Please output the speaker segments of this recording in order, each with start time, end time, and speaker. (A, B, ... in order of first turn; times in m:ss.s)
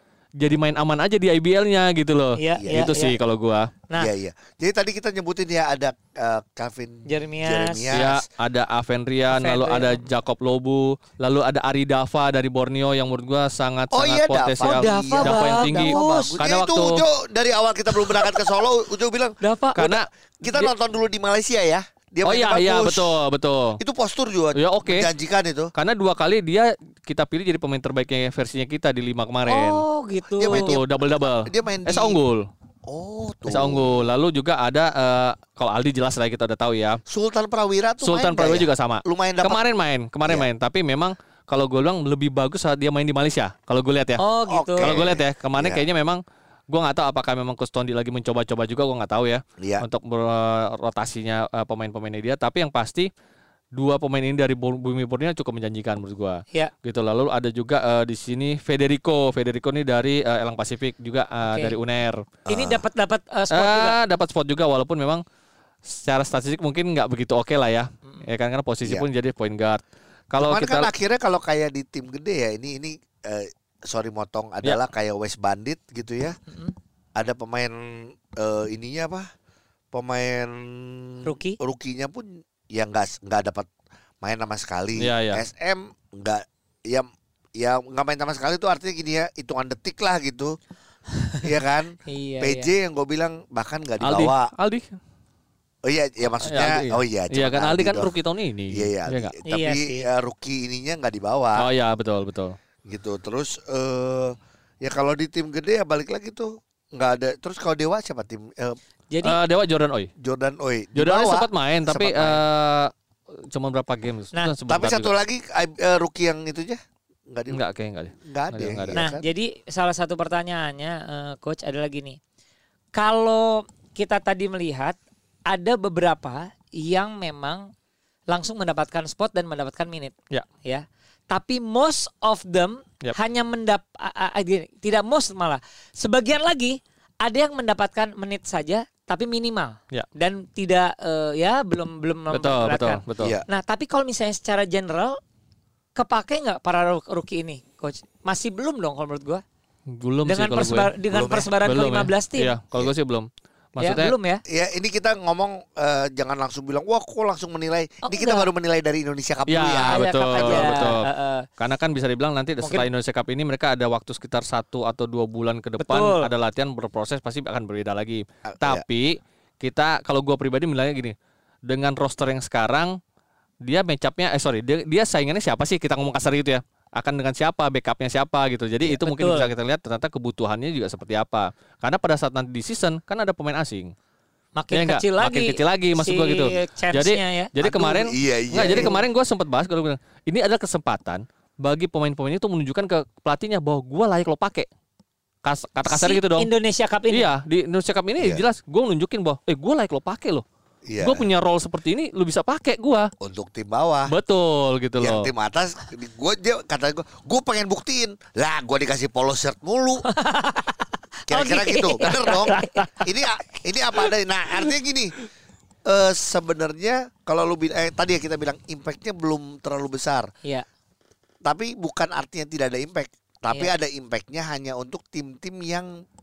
0:00.4-0:03.7 A
0:02.4-0:03.2 B
0:02.6-0:03.1 C
0:04.0-0:08.2 C
0:07.1-0:07.9 B
0:07.9-0:17.0 A
0:09.3-0:10.1 B
0:13.9-0:23.2 C
0:14.6-0:16.4 B
0:19.4-0:19.8 B
0:19.8-0:20.7 A
0:22.2-0:23.8 A
0:23.8-0:25.7 C
0:24.6-0:25.1 A
0:25.8-0:29.8 A
0:29.5-0:30.7 B
0:30.4-0:32.2 C
0:30.5-0:32.5 A
0:32.9-0:34.1 C
0:33.5-0:37.0 A
0:37.1-0:39.6 C
0:38.0-0:44.2 A
0:44.2-0:45.0 B
0:44.5-0:45.8 C
0:44.8-0:53.1 A
0:49.6-0:49.8 C
0:53.8-1:02.2 A
1:01.4-1:01.8 B
1:02.5-1:02.8 C
1:02.5-1:04.0 B
1:03.5-1:05.2 A
1:05.9-1:10.9 A
1:10.4-1:16.4 C
1:16.5-1:16.8 B
1:17.2-1:19.3 C
1:19.9-1:23.7 C
1:21.2-1:21.6 B
1:24.2-1:30.6 C
1:25.0-1:25.4 A
1:31.4-1:34.5 C
1:32.1-1:32.7 B
1:34.0-1:34.9 A
1:35.8-1:38.1 C
1:36.4-1:39.3 A
1:38.7-1:41.7 C
1:39.5-1:40.1 B
1:41.6-1:42.6 A
1:42.9-1:48.8 C
1:49.1-1:49.4 B
1:49.2-1:50.1 A
1:50.2-1:52.4 C
1:51.0-1:55.1 A
1:54.7-1:56.8 C
1:57.3-1:57.6 C
1:57.5-1:59.0 A
1:58.2-1:59.2 C
1:58.9-2:02.2 B
2:02.9-2:05.0 B
2:05.5-2:07.7 B
2:08.3-2:10.1 B
2:10.6-2:25.2 B
2:22.3-2:23.4 A
2:23.2-2:23.5 C
2:26.0-2:29.4 B
2:29.9-2:31.0 A
2:30.3-2:32.5 B
2:31.1-2:31.5 C
2:31.6-2:34.1 A
2:33.8-2:34.4 B
2:34.5-2:40.9 C
2:38.0-2:38.5 B
2:39.5-2:41.0 A
2:39.8-2:41.5 B
2:41.6-2:51.2 A
2:42.6-2:42.9 B
2:45.8-2:46.3 B
2:48.5-2:48.8 C
2:51.7-2:53.0 A
2:53.6-3:03.9 A
2:58.9-2:59.5 B
3:04.6-3:07.9 B
3:04.7-3:14.7 A
3:07.8-3:09.0 C
3:08.7-3:09.0 B
3:15.4-3:16.5 A
3:15.9-3:17.3 B
3:17.1-3:20.4 A
3:20.9-3:21.3 C
3:21.0-3:23.1 A
3:23.2-3:24.1 C
3:24.1-3:25.3 A
3:25.0-3:30.1 C
3:30.1-3:33.1 B
3:31.3-3:35.2 C
3:35.9-3:40.3 C
3:41.4-3:45.9 C